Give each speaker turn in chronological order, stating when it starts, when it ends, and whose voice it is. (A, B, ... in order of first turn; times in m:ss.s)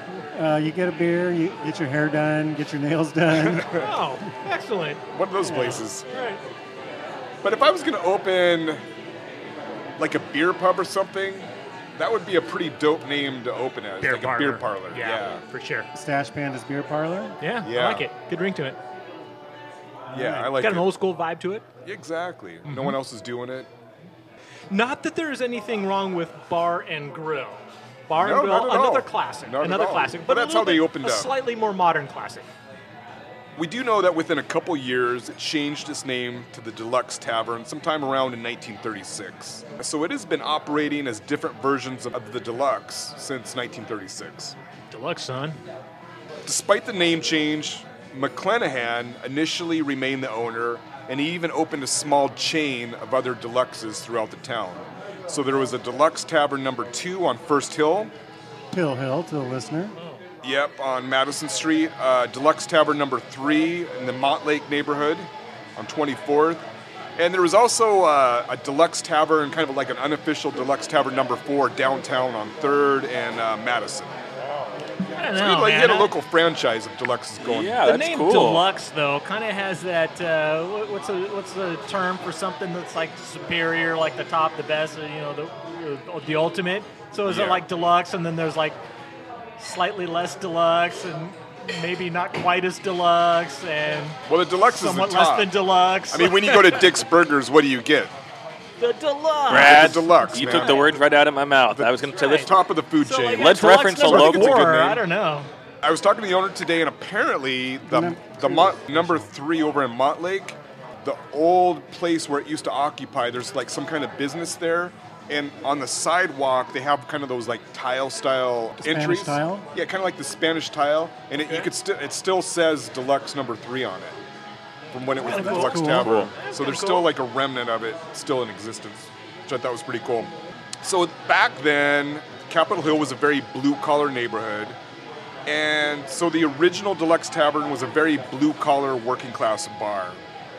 0:00.3-0:03.8 A
0:03.4-0:03.9 B
0:03.8-0:06.4 C
0:05.1-0:06.1 B
0:05.4-0:05.8 A
0:07.4-0:08.8 B
0:10.0-0:15.4 B
0:14.0-0:15.9 C
0:15.9-0:17.4 A
0:17.4-0:18.8 C
0:17.6-0:18.1 B
0:20.1-0:20.5 A
0:20.1-0:20.9 B
0:20.6-0:21.6 C
0:21.8-0:23.7 B
0:22.7-0:23.0 C
0:24.7-0:32.5 C
0:28.2-0:31.3 B
0:33.6-0:44.6 B
0:44.9-0:45.6 C
0:46.4-0:58.1 B
0:58.7-1:00.0 A
1:00.4-1:14.2 B
1:15.1-1:16.1 C
1:15.2-1:17.8 B
1:17.4-1:18.6 D
1:17.8-1:28.8 C
1:27.3-1:27.6 B
1:29.6-1:36.9 C
1:34.3-1:35.5 B
1:36.1-1:38.1 B
1:38.8-1:41.0 C
1:39.5-1:42.6 D
1:39.5-1:41.0 B
1:41.7-1:45.0 B
1:42.1-1:42.5 C
1:43.0-1:45.5 C
1:43.3-1:44.8 D
1:45.8-2:04.2 B
1:47.9-1:49.3 A
1:58.8-1:59.7 A
2:04.9-2:14.8 B
2:05.1-2:07.1 C
2:05.2-2:06.2 A
2:06.0-2:06.3 D
2:15.5-2:20.2 B